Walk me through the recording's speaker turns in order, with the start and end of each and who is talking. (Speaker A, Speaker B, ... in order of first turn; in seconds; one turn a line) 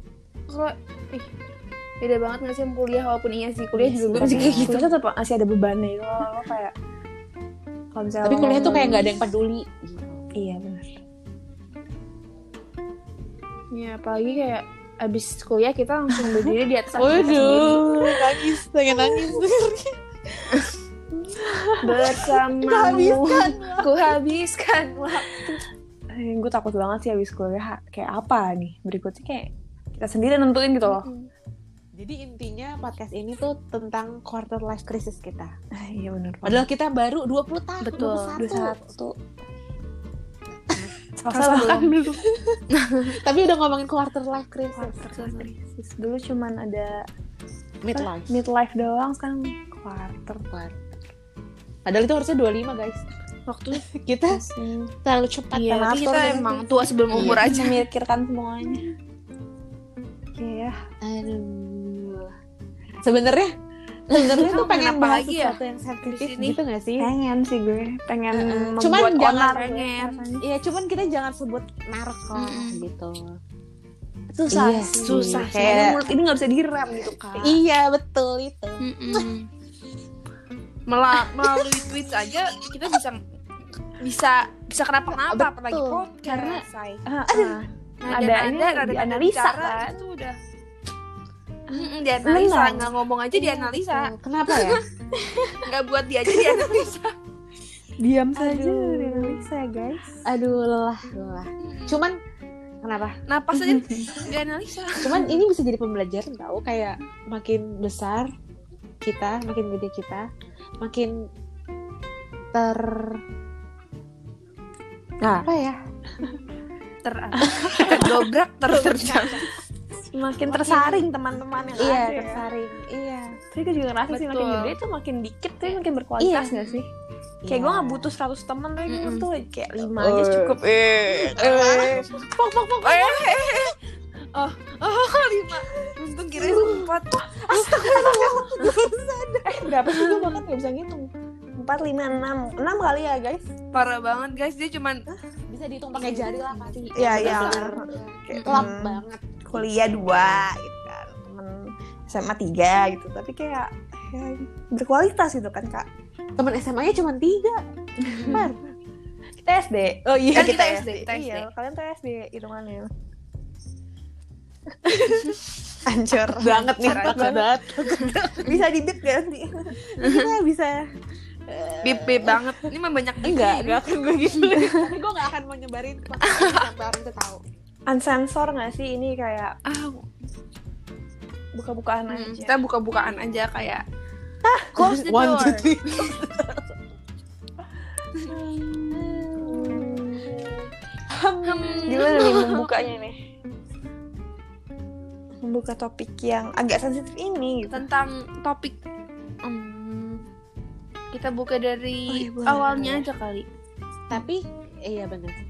Speaker A: 0.5-1.3
Speaker A: 2.0-4.9
Speaker B: 3.8-4.8
Speaker C: 4.1-6.7
Speaker C: 7.9-9.1
Speaker B: 8.2-10.2
Speaker A: 8.4-9.1
Speaker C: 10.3-11.0
Speaker A: 13.7-17.8
Speaker C: 16.1-18.4
Speaker B: 17.0-20.0
Speaker C: 18.9-19.4
Speaker C: 21.1-22.2
Speaker B: 21.3-24.1
Speaker A: 21.8-25.6
Speaker C: 26.1-31.1
Speaker A: 30.9-31.3
Speaker B: 32.0-35.5
Speaker C: 35.7-36.7
Speaker B: 36.4-38.8
Speaker A: 37.8-38.4
Speaker C: 38.4-39.1
Speaker B: 40.7-45.0
Speaker C: 41.2-41.9
Speaker A: 41.4-41.8
Speaker A: 42.7-43.2
Speaker C: 44.7-47.0
Speaker A: 45.1-45.5
Speaker B: 47.8-48.4
Speaker C: 47.9-50.5
Speaker B: 50.3-50.8
Speaker B: 51.9-53.0
Speaker A: 53.5-53.8
Speaker B: 53.8-54.4
Speaker C: 54.3-54.9
Speaker B: 55.0-55.9
Speaker A: 55.5-57.8
Speaker C: 55.7-58.9
Speaker B: 57.1-57.5
Speaker C: 60.3-60.8
Speaker B: 61.0-62.3
Speaker B: 63.0-63.5
Speaker B: 64.1-67.1
Speaker A: 64.1-66.6
Speaker C: 67.0-70.4
Speaker B: 68.3-69.7
Speaker A: 69.4-70.2
Speaker B: 70.4-73.4
Speaker A: 72.3-72.8
Speaker C: 74.3-77.6
Speaker B: 74.5-76.1
Speaker A: 75.0-76.0
Speaker B: 77.4-79.3
Speaker A: 78.8-79.5
Speaker A: 80.9-83.2
Speaker B: 81.3-81.7
Speaker A: 84.0-87.0
Speaker B: 85.2-86.1
Speaker C: 86.2-90.0
Speaker B: 87.3-87.6
Speaker A: 88.0-90.4
Speaker C: 91.7-92.9
Speaker A: 91.7-94.8
Speaker B: 93.3-94.8
Speaker A: 95.5-97.1
Speaker C: 98.0-100.2
Speaker B: 98.3-99.4
Speaker B: 100.2-102.2
Speaker A: 101.6-102.0
Speaker B: 102.8-103.2
Speaker A: 103.3-105.3
Speaker C: 103.5-104.3
Speaker B: 105.0-108.3
Speaker B: 109.0-110.3
Speaker B: 110.8-111.2
Speaker B: 112.5-113.2
Speaker C: 115.2-115.5
Speaker B: 115.3-115.8
Speaker A: 117.0-119.5
Speaker C: 117.4-118.1
Speaker B: 117.5-118.2
Speaker B: 118.8-119.5
Speaker C: 120.1-122.4
Speaker B: 120.5-121.0
Speaker B: 121.8-123.4
Speaker C: 123.5-126.9
Speaker A: 124.1-124.7
Speaker B: 126.2-126.8
Speaker B: 127.4-128.1
Speaker C: 127.5-132.2
Speaker A: 128.9-129.3
Speaker B: 129.9-133.7
Speaker A: 131.4-131.6
Speaker A: 132.8-133.8
Speaker A: 134.3-138.7
Speaker B: 135.7-140.2
Speaker C: 137.6-138.5
Speaker C: 139.4-143.4
Speaker A: 143.7-145.0
Speaker B: 145.5-150.5
Speaker C: 145.9-155.9
Speaker A: 146.9-148.7
Speaker B: 156.4-158.6
Speaker A: 158.1-158.4
Speaker C: 158.1-158.5
Speaker C: 159.4-162.9
Speaker B: 160.1-160.8
Speaker A: 160.3-161.5
Speaker B: 164.9-165.4
Speaker A: 165.1-165.4
Speaker C: 165.8-167.5
Speaker B: 166.3-168.6
Speaker A: 166.8-167.4
Speaker C: 168.4-169.7
Speaker B: 169.9-170.9
Speaker A: 170.0-170.3
Speaker B: 171.5-172.4
Speaker A: 171.8-173.8
Speaker B: 173.2-177.4
Speaker C: 174.5-174.9
Speaker A: 176.2-176.6
Speaker C: 177.9-179.6
Speaker A: 179.7-180.1
Speaker C: 181.5-182.6
Speaker A: 182.1-183.8
Speaker C: 184.5-185.0
Speaker A: 184.7-186.1
Speaker B: 184.8-186.7
Speaker C: 188.3-190.6
Speaker B: 188.9-189.9
Speaker B: 191.1-192.4
Speaker A: 191.4-192.7
Speaker C: 191.9-193.2
Speaker C: 195.4-197.8
Speaker A: 197.7-198.8
Speaker A: 199.4-200.2
Speaker A: 201.1-203.5
Speaker C: 202.1-203.1
Speaker B: 204.1-205.4